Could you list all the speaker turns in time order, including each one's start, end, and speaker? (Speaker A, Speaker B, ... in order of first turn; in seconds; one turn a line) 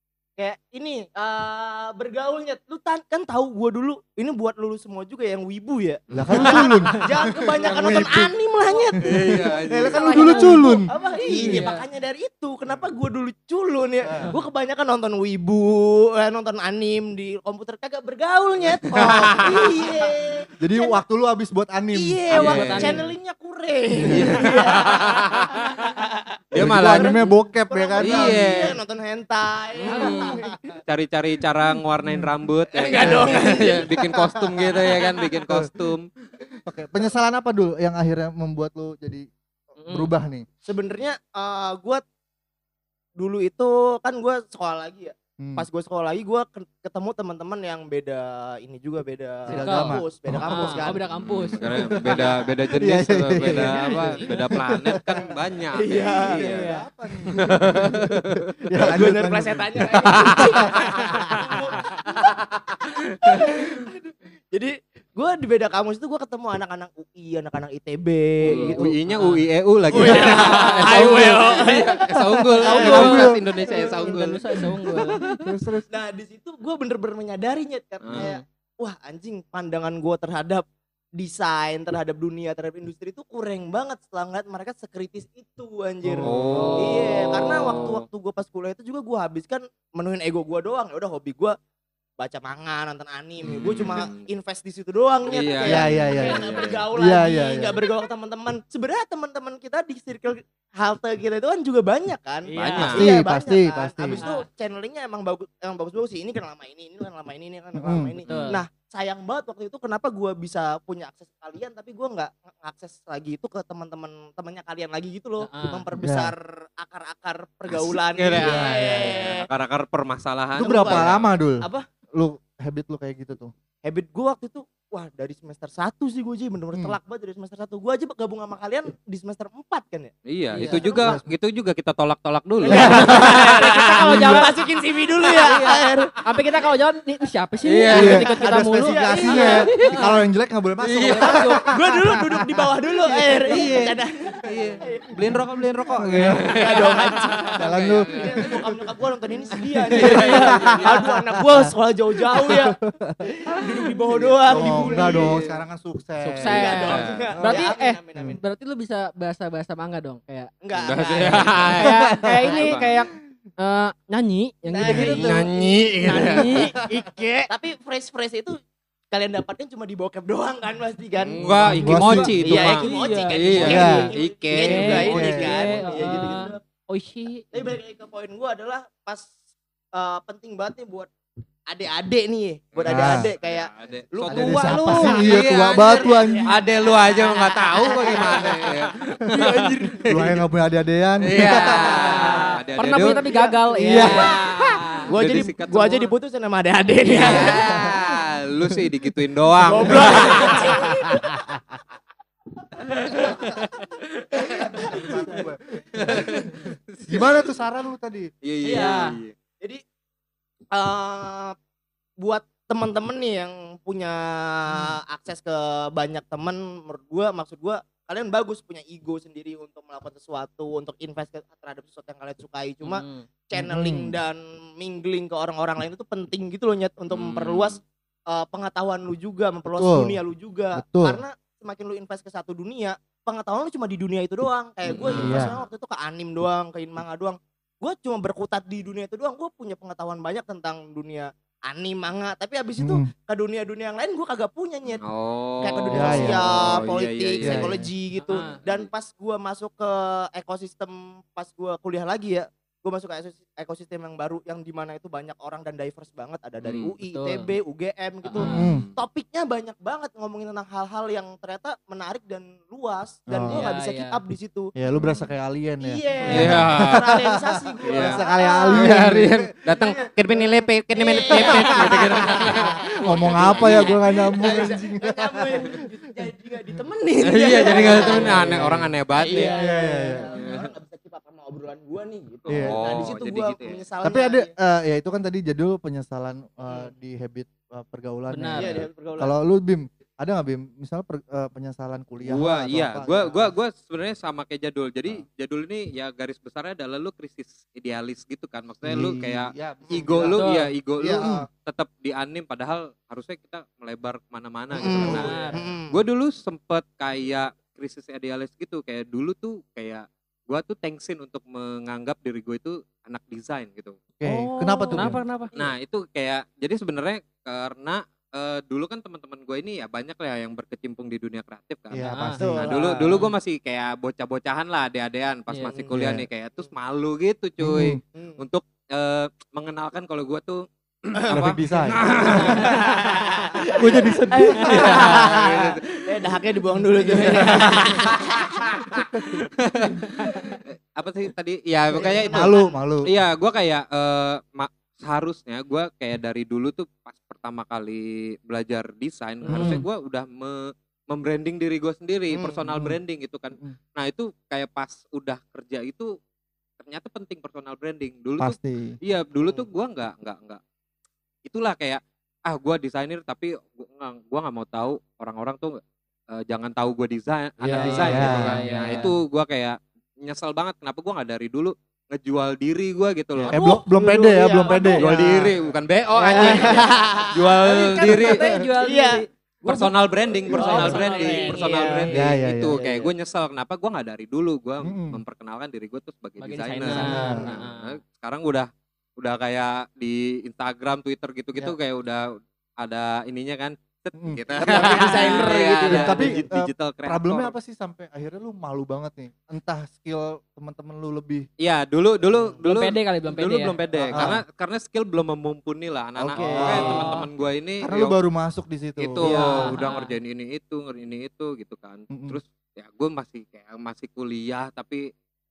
Speaker A: 0.4-21.0
Speaker B: 6.1-8.3
Speaker C: 6.1-6.5
Speaker B: 9.0-11.7
Speaker C: 9.0-10.0
Speaker D: 9.9-11.8
Speaker B: 18.8-19.6
Speaker C: 18.9-19.7
Speaker B: 20.6-23.0
Speaker A: 21.9-27.2
Speaker D: 22.3-23.0
Speaker C: 22.3-23.0
Speaker B: 24.0-24.4
Speaker C: 24.0-25.5
Speaker C: 26.5-27.3
Speaker B: 26.5-28.5
Speaker A: 27.7-30.7
Speaker C: 28.0-28.8
Speaker C: 29.8-36.1
Speaker D: 29.9-30.4
Speaker B: 32.0-32.3
Speaker A: 32.7-34.0
Speaker B: 33.0-34.8
Speaker B: 35.5-35.7
Speaker B: 36.6-39.3
Speaker D: 39.8-40.1
Speaker B: 39.9-40.5
Speaker A: 40.6-42.0
Speaker A: 43.2-51.0
Speaker B: 45.4-45.7
Speaker B: 49.5-50.9
Speaker D: 49.5-52.4
Speaker C: 51.1-56.7
Speaker B: 51.6-55.3
Speaker A: 52.1-52.8
Speaker A: 53.4-56.4
Speaker B: 56.2-61.3
Speaker D: 56.4-56.9
Speaker C: 57.3-58.4
Speaker A: 58.8-62.4
Speaker C: 59.9-61.4
Speaker A: 63.2-68.9
Speaker C: 63.3-63.7
Speaker D: 68.4-69.5
Speaker C: 68.4-74.4
Speaker A: 69.9-72.0
Speaker D: 70.0-71.4
Speaker B: 72.1-73.7
Speaker D: 72.6-75.5
Speaker A: 72.8-73.1
Speaker B: 74.6-75.8
Speaker A: 75.9-80.6
Speaker C: 78.0-78.3
Speaker D: 78.1-78.4
Speaker A: 81.2-91.5
Speaker B: 86.0-86.3
Speaker C: 86.2-88.0
Speaker D: 86.5-87.1
Speaker A: 92.2-119.5
Speaker C: 93.4-94.3
Speaker C: 95.3-96.8
Speaker B: 95.6-97.8
Speaker D: 102.5-103.0
Speaker C: 102.5-103.1
Speaker B: 102.8-104.2
Speaker D: 104.2-104.4
Speaker B: 107.7-108.2
Speaker C: 108.3-108.5
Speaker D: 108.3-108.6
Speaker D: 115.4-115.8
Speaker B: 116.0-116.3
Speaker C: 117.7-121.3
Speaker B: 118.4-119.1
Speaker A: 120.6-121.8
Speaker B: 120.6-123.5
Speaker A: 123.8-130.1
Speaker C: 130.2-133.8
Speaker D: 130.5-131.1
Speaker B: 130.6-131.2
Speaker D: 132.6-134.5
Speaker A: 132.6-136.3
Speaker B: 132.7-133.4
Speaker B: 134.0-134.5
Speaker D: 135.3-140.2
Speaker C: 137.6-138.2
Speaker B: 137.9-142.5
Speaker A: 138.1-140.0
Speaker C: 140.8-141.4
Speaker D: 141.2-141.6
Speaker A: 141.7-145.1
Speaker B: 143.2-143.6
Speaker C: 143.5-148.7
Speaker B: 144.4-145.4
Speaker B: 145.9-146.5
Speaker A: 146.4-155.4
Speaker B: 147.6-148.6
Speaker C: 149.5-151.0
Speaker B: 149.9-151.7
Speaker B: 152.3-153.2
Speaker C: 154.2-155.6
Speaker B: 154.5-157.6
Speaker D: 156.2-160.5
Speaker A: 156.4-158.4
Speaker C: 156.9-157.2
Speaker A: 160.6-161.7
Speaker C: 160.8-162.9
Speaker D: 161.3-165.4
Speaker A: 164.7-168.6
Speaker B: 164.8-165.4
Speaker C: 164.9-166.7
Speaker D: 166.0-166.7
Speaker A: 169.1-176.6
Speaker C: 171.2-175.2
Speaker B: 171.6-172.4
Speaker D: 171.6-174.0
Speaker B: 173.6-174.1
Speaker D: 174.5-177.7
Speaker B: 174.7-176.2
Speaker A: 177.5-179.3
Speaker A: 179.9-181.1
Speaker A: 181.7-188.7
Speaker C: 182.7-190.4
Speaker B: 182.8-183.3
Speaker B: 184.2-186.6
Speaker A: 189.3-190.0
Speaker B: 190.0-192.5
Speaker C: 191.2-193.2
Speaker D: 191.8-194.4
Speaker A: 191.9-192.4
Speaker A: 193.1-197.9
Speaker B: 193.8-194.3
Speaker C: 193.9-196.1
Speaker C: 197.1-200.7
Speaker B: 197.4-197.8
Speaker A: 199.6-201.6
Speaker A: 203.1-203.6
Speaker C: 203.2-203.8
Speaker A: 204.4-205.4
Speaker C: 204.5-207.6
Speaker B: 204.5-208.3
Speaker C: 208.4-209.3
Speaker A: 208.6-209.1
Speaker D: 208.7-209.1
Speaker A: 210.7-211.6
Speaker A: 212.2-245.0
Speaker D: 222.8-223.3
Speaker B: 223.5-224.2
Speaker C: 227.1-227.8
Speaker B: 229.8-230.2
Speaker B: 230.7-231.2
Speaker C: 234.8-235.6
Speaker B: 235.0-235.6
Speaker B: 242.8-243.1
Speaker C: 244.9-247.7
Speaker A: 245.6-264.7
Speaker B: 245.9-246.7
Speaker B: 247.4-247.9
Speaker D: 248.2-248.6
Speaker C: 248.3-248.9
Speaker C: 256.6-256.9
Speaker D: 257.1-257.5
Speaker D: 258.2-258.7
Speaker C: 258.4-258.9
Speaker B: 258.4-258.9
Speaker B: 263.3-263.7
Speaker D: 263.5-264.2
Speaker B: 264.7-267.3
Speaker C: 264.9-265.2
Speaker A: 265.8-269.1
Speaker C: 266.3-267.1
Speaker C: 267.9-274.0
Speaker B: 267.9-269.5
Speaker A: 270.9-284.5
Speaker B: 271.3-275.8
Speaker C: 277.2-279.6
Speaker B: 277.7-278.6
Speaker D: 277.9-278.2
Speaker D: 279.3-279.7
Speaker B: 279.4-280.4
Speaker C: 280.3-280.7
Speaker C: 282.4-283.8
Speaker B: 282.5-282.9
Speaker B: 284.0-293.5
Speaker D: 288.3-288.8
Speaker A: 288.6-289.3
Speaker C: 292.2-314.0
Speaker B: 298.8-300.4
Speaker D: 300.3-300.7
Speaker B: 301.0-301.5
Speaker A: 304.7-306.0
Speaker B: 304.8-305.5
Speaker D: 304.9-305.6
Speaker B: 314.1-315.2
Speaker D: 314.2-315.5
Speaker C: 315.0-334.0
Speaker B: 321.9-322.8
Speaker D: 322.1-322.4
Speaker A: 322.4-323.3
Speaker B: 325.9-326.3
Speaker B: 327.6-328.0
Speaker A: 328.1-328.4
Speaker A: 331.3-339.0
Speaker B: 331.3-332.7
Speaker B: 333.6-335.5
Speaker C: 334.6-336.4
Speaker B: 337.1-337.3
Speaker C: 337.1-338.8
Speaker B: 338.9-339.4
Speaker C: 339.6-350.6
Speaker A: 340.1-340.5
Speaker A: 341.9-342.8
Speaker B: 342.2-343.1
Speaker D: 349.4-349.8
Speaker B: 349.4-349.9
Speaker C: 351.1-356.1
Speaker A: 352.3-352.6
Speaker B: 352.6-353.0
Speaker C: 356.8-360.6
Speaker B: 358.4-359.0
Speaker C: 361.4-365.8
Speaker C: 366.3-373.6
Speaker D: 367.6-369.1
Speaker B: 367.8-368.7
Speaker B: 373.4-375.5
Speaker A: 373.5-375.2
Speaker C: 375.0-378.4
Speaker B: 376.2-376.7
Speaker A: 376.2-377.3
Speaker D: 376.4-376.7
Speaker D: 377.6-379.9
Speaker B: 378.0-378.6
Speaker A: 378.8-379.2
Speaker C: 379.6-392.2
Speaker A: 380.5-382.1
Speaker D: 380.5-382.2
Speaker B: 380.6-381.1
Speaker B: 382.1-383.1
Speaker B: 384.8-385.2
Speaker D: 386.4-387.9
Speaker B: 386.9-387.5
Speaker C: 392.8-397.5
Speaker B: 394.2-394.4
Speaker A: 394.5-396.4
Speaker D: 394.8-396.1
Speaker B: 395.9-401.5
Speaker C: 401.6-408.2
Speaker D: 402.6-404.2
Speaker B: 404.1-404.4
Speaker B: 406.1-407.1
Speaker D: 406.4-407.2
Speaker A: 406.4-407.0
Speaker B: 407.8-409.8
Speaker C: 409.0-415.0
Speaker D: 409.2-410.1
Speaker B: 412.1-412.4